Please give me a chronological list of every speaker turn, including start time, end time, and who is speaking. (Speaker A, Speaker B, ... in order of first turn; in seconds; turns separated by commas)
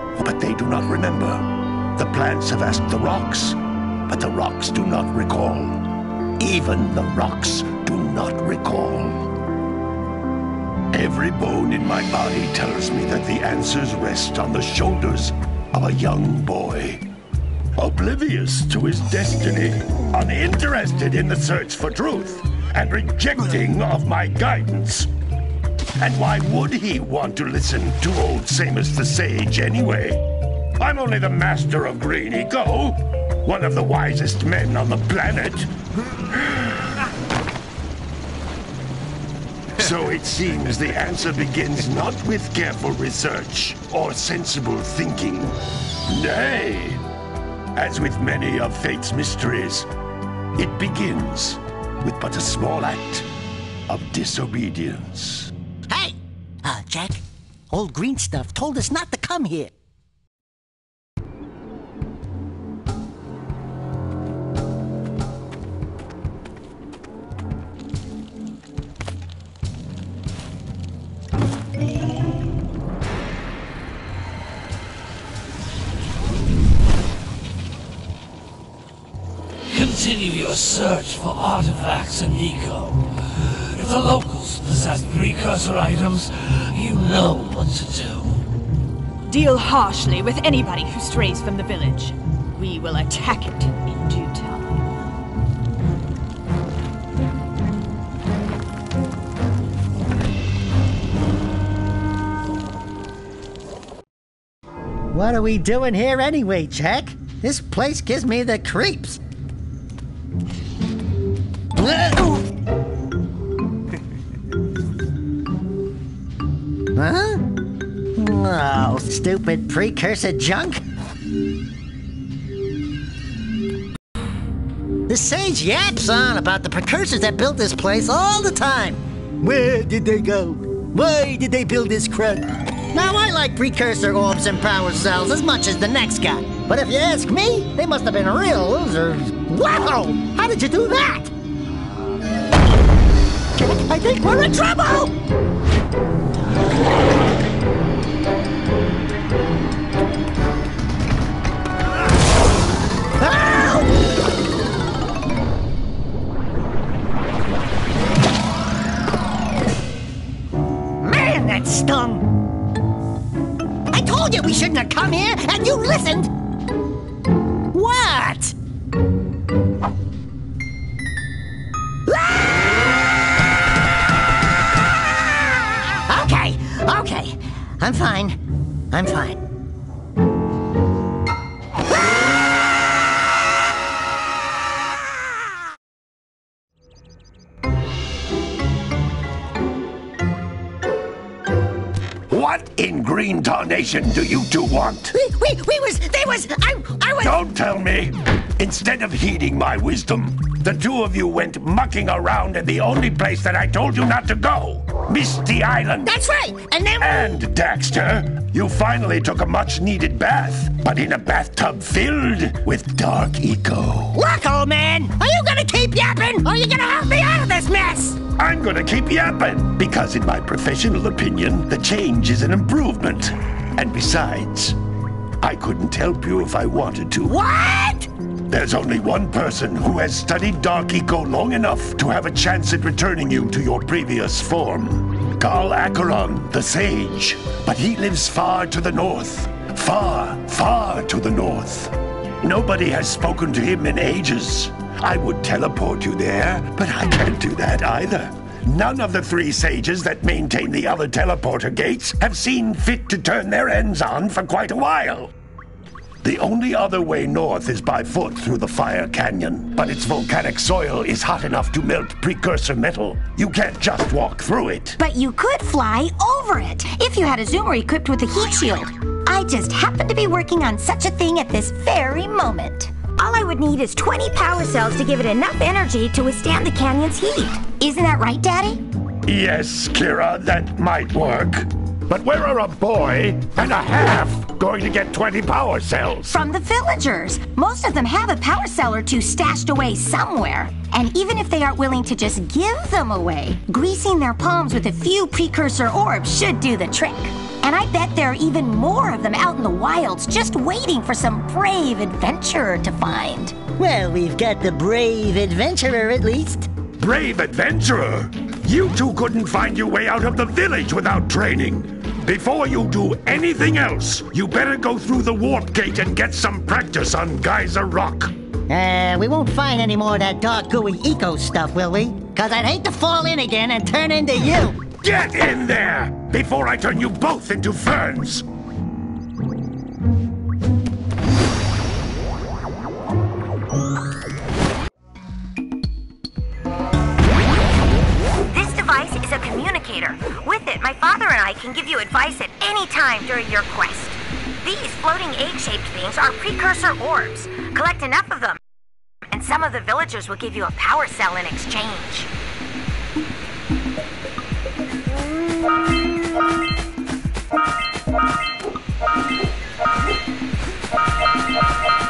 Speaker A: 0.2-5.8, Speaker A: 6.4-9.2, Speaker A: 10.9-17.0, Speaker A: 17.8-25.1, Speaker A: 26.0-30.2, Speaker A: 30.8-35.7, Speaker A: 36.3-36.8, Speaker A: 39.8-47.0, Speaker A: 47.7-49.9, Speaker A: 50.5-53.3, Speaker A: 53.9-55.5, Speaker B: 55.9-59.7, Speaker C: 79.7-83.0, Speaker C: 83.7-88.3, Speaker D: 83.8-84.4, Speaker D: 89.3-94.8, Speaker B: 105.1-109.2, Speaker B: 111.7-112.4, Speaker B: 116.9-117.5, Speaker B: 118.1-120.8, Speaker B: 125.1-141.3, Speaker B: 143.6-145.1, Speaker B: 153.2-154.0, Speaker B: 161.0-162.3, Speaker B: 163.9-166.3, Speaker B: 167.7-168.5, Speaker B: 172.1-172.6, Speaker B: 176.1-178.4, Speaker B: 178.9-179.4, Speaker A: 192.3-195.1, Speaker B: 195.1-197.4, Speaker A: 197.2-206.1, Speaker B: 206.0-207.4, Speaker A: 207.0-214.2, Speaker B: 214.1-218.2, Speaker A: 218.4-224.8, Speaker A: 225.4-227.3, Speaker B: 227.2-228.1, Speaker A: 228.5-255.3, Speaker A: 256.2-265.0, Speaker E: 265.0-278.8, Speaker A: 279.2-286.3, Speaker E: 286.3-303.6, Speaker B: 303.8-306.7, Speaker A: 307.0-318.3, Speaker B: 318.7-324.8, Speaker A: 325.0-328.4, Speaker E: 338.4-348.6, Speaker E: 349.3-352.3